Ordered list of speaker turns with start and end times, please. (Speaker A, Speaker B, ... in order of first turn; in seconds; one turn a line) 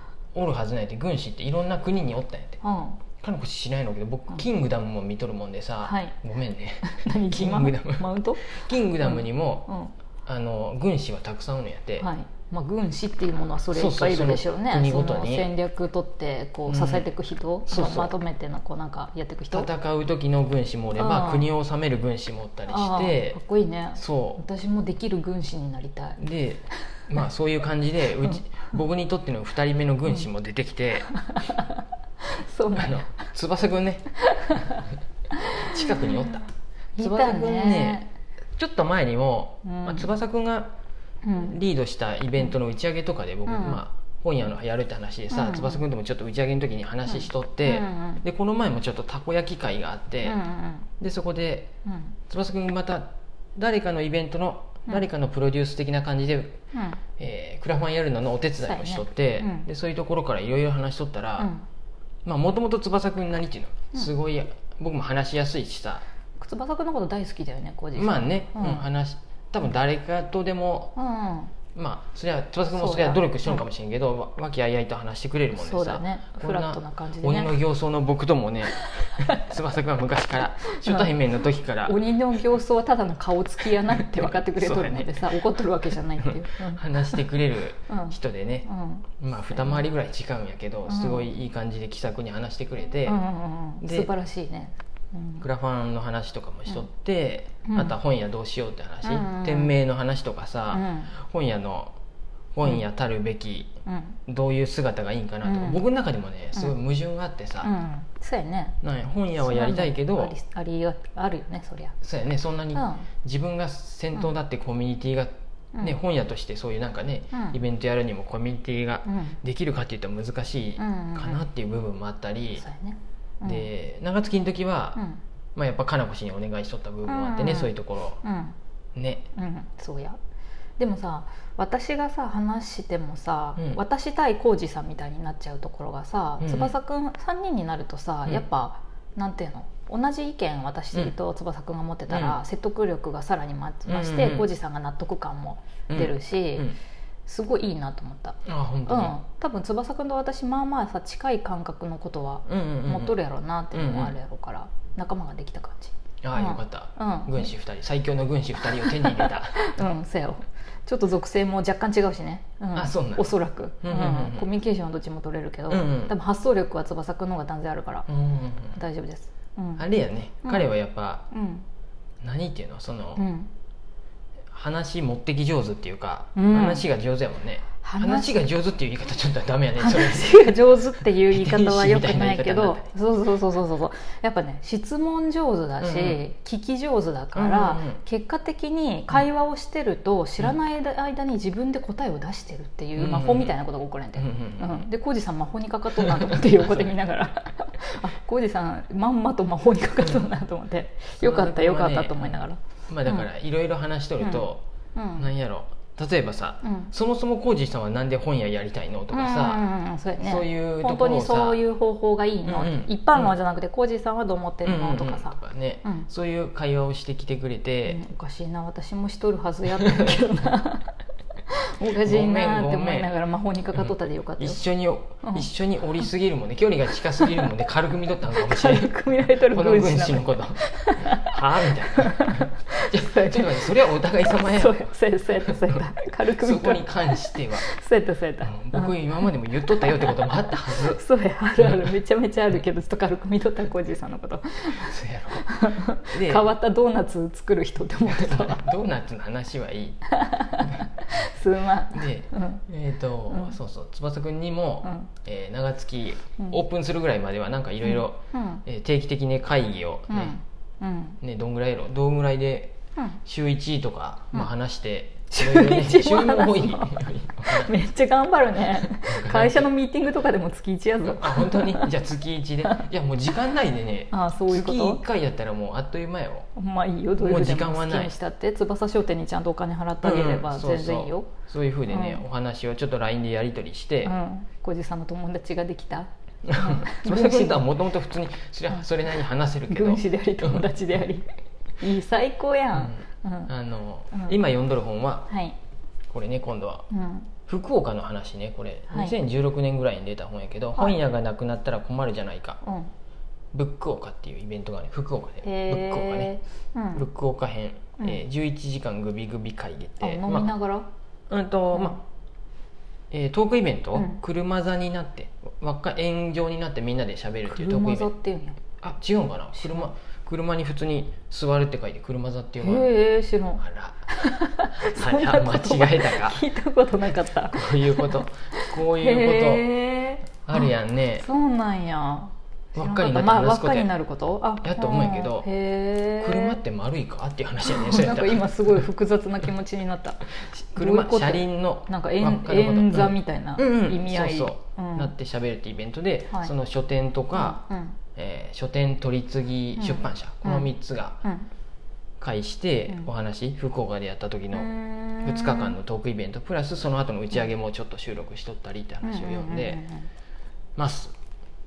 Speaker A: 0.3-2.6
Speaker B: 2.6-3.0
Speaker A: 3.2-9.7
Speaker B: 5.8-6.2
Speaker B: 6.8-9.9
Speaker A: 10.3-12.1
Speaker B: 12.0-19.7
Speaker A: 13.7-15.5
Speaker A: 16.7-17.1
Speaker A: 17.7-18.1
Speaker A: 19.5-23.4
Speaker B: 21.0-21.5
Speaker B: 22.7-26.2
Speaker A: 24.0-24.4
Speaker A: 26.2-31.1
Speaker B: 31.1-33.1
Speaker A: 32.8-34.1
Speaker B: 34.2-36.3
Speaker A: 35.6-40.7
Speaker B: 37.0-38.1
Speaker B: 39.6-40.1
Speaker B: 41.2-41.6
Speaker A: 41.4-50.4
Speaker B: 43.5-43.8
Speaker B: 45.3-45.8
Speaker B: 47.1-48.2
Speaker B: 50.2-50.9
Speaker A: 51.0-51.7
Speaker B: 51.9-52.1
Speaker A: 52.3-56.6
Speaker B: 56.7-57.0
Speaker A: 57.2-61.5
Speaker B: 58.6-59.7
Speaker B: 61.4-61.6
Speaker A: 62.2-66.0
Speaker B: 66.4-68.8
Speaker A: 67.9-71.0
Speaker B: 71.0-71.6
Speaker A: 71.7-82.0
Speaker B: 72.7-73.7
Speaker B: 75.6-77.5
Speaker B: 78.7-79.4
Speaker B: 80.7-81.1
Speaker B: 81.8-87.2
Speaker A: 84.0-85.5
Speaker A: 86.2-88.7
Speaker B: 87.9-89.8
Speaker A: 89.2-93.2
Speaker B: 90.9-91.3
Speaker B: 93.0-95.5
Speaker A: 93.8-94.1
Speaker A: 95.4-102.0
Speaker B: 97.7-98.0
Speaker B: 99.0-99.8
Speaker B: 100.7-101.1
Speaker A: 102.5-103.7
Speaker B: 103.9-104.2
Speaker A: 104.3-107.7
Speaker B: 105.4-105.8
Speaker B: 107.6-108.8
Speaker A: 108.8-110.4
Speaker B: 109.4-112.0
Speaker A: 112.0-122.7
Speaker B: 112.7-113.1
Speaker B: 117.3-117.6
Speaker B: 119.1-119.4
Speaker B: 120.8-121.4
Speaker B: 122.6-123.7
Speaker A: 123.4-125.0
Speaker A: 125.6-128.2
Speaker B: 127.1-128.6
Speaker A: 129.0-129.3
Speaker B: 129.4-130.2
Speaker B: 130.8-146.7
Speaker A: 136.4-136.7
Speaker A: 142.1-142.4
Speaker A: 143.9-144.5
Speaker A: 145.9-146.8
Speaker B: 147.3-157.5
Speaker A: 148.5-149.2
Speaker A: 152.5-153.2
Speaker A: 153.7-154.2
Speaker A: 156.2-159.7
Speaker B: 158.6-168.1
Speaker A: 162.7-164.5
Speaker A: 165.7-166.2
Speaker A: 168.1-168.8
Speaker B: 168.8-169.8
Speaker A: 169.8-171.3
Speaker B: 170.4-170.7
Speaker B: 171.3-171.7
Speaker A: 172.2-173.3
Speaker B: 173.2-173.5
Speaker A: 174.5-182.9
Speaker B: 176.3-176.9
Speaker B: 177.8-178.5
Speaker B: 179.8-203.3
Speaker A: 185.8-186.2
Speaker A: 187.3-188.0
Speaker A: 193.0-193.6
Speaker A: 194.2-194.9
Speaker A: 196.0-196.9
Speaker A: 201.2-204.6
Speaker B: 204.2-205.3
Speaker A: 205.2-209.6
Speaker B: 206.6-206.9
Speaker B: 209.1-216.1
Speaker A: 210.2-211.6
Speaker A: 212.5-213.3
Speaker A: 214.7-218.0
Speaker B: 217.9-220.9
Speaker A: 219.8-220.2
Speaker B: 221.5-224.6
Speaker A: 221.8-223.1
Speaker A: 223.8-234.9
Speaker B: 225.2-225.5
Speaker B: 227.2-227.5
Speaker B: 228.3-239.0
Speaker A: 235.4-235.8
Speaker A: 236.4-237.7
Speaker A: 238.4-241.0
Speaker B: 239.6-248.7
Speaker A: 241.6-241.9
Speaker A: 244.8-246.5
Speaker A: 248.1-250.9
Speaker B: 250.1-252.6
Speaker A: 251.9-260.4
Speaker B: 253.3-253.6
Speaker B: 254.8-255.1
Speaker B: 257.8-258.6
Speaker B: 260.1-261.2
Speaker A: 261.2-267.7
Speaker B: 265.3-272.0
Speaker A: 268.8-269.7
Speaker A: 271.0-276.5
Speaker B: 274.1-275.0
Speaker B: 276.6-281.4
Speaker A: 277.2-278.1
Speaker A: 280.0-284.1
Speaker B: 281.9-282.2
Speaker B: 284.0-287.7
Speaker A: 286.4-290.7
Speaker B: 289.7-291.3
Speaker B: 291.8-293.5
Speaker A: 292.7-295.3
Speaker B: 294.1-294.4
Speaker B: 295.3-295.6
Speaker A: 296.1-296.9
Speaker B: 296.9-297.3
Speaker A: 297.4-302.6
Speaker B: 298.9-299.2
Speaker B: 302.6-302.9
Speaker A: 303.5-306.3
Speaker B: 305.4-307.1
Speaker A: 306.9-310.5
Speaker B: 310.0-310.9
Speaker A: 311.3-312.0
Speaker A: 313.1-318.1
Speaker B: 313.9-314.2
Speaker B: 317.5-318.6
Speaker A: 318.8-322.9
Speaker B: 319.5-319.9
Speaker B: 322.6-336.6
Speaker A: 323.6-326.4
Speaker A: 327.5-329.7
Speaker A: 330.4-331.3
Speaker A: 332.8-333.9
Speaker A: 334.5-335.5
Speaker A: 336.1-338.9
Speaker B: 337.6-345.1
Speaker A: 340.5-347.6
Speaker B: 347.3-348.0
Speaker A: 348.1-351.2
Speaker B: 349.8-350.7
Speaker B: 351.2-351.5
Speaker A: 352.2-359.8
Speaker B: 354.5-355.8
Speaker B: 359.0-360.1
Speaker A: 360.8-361.1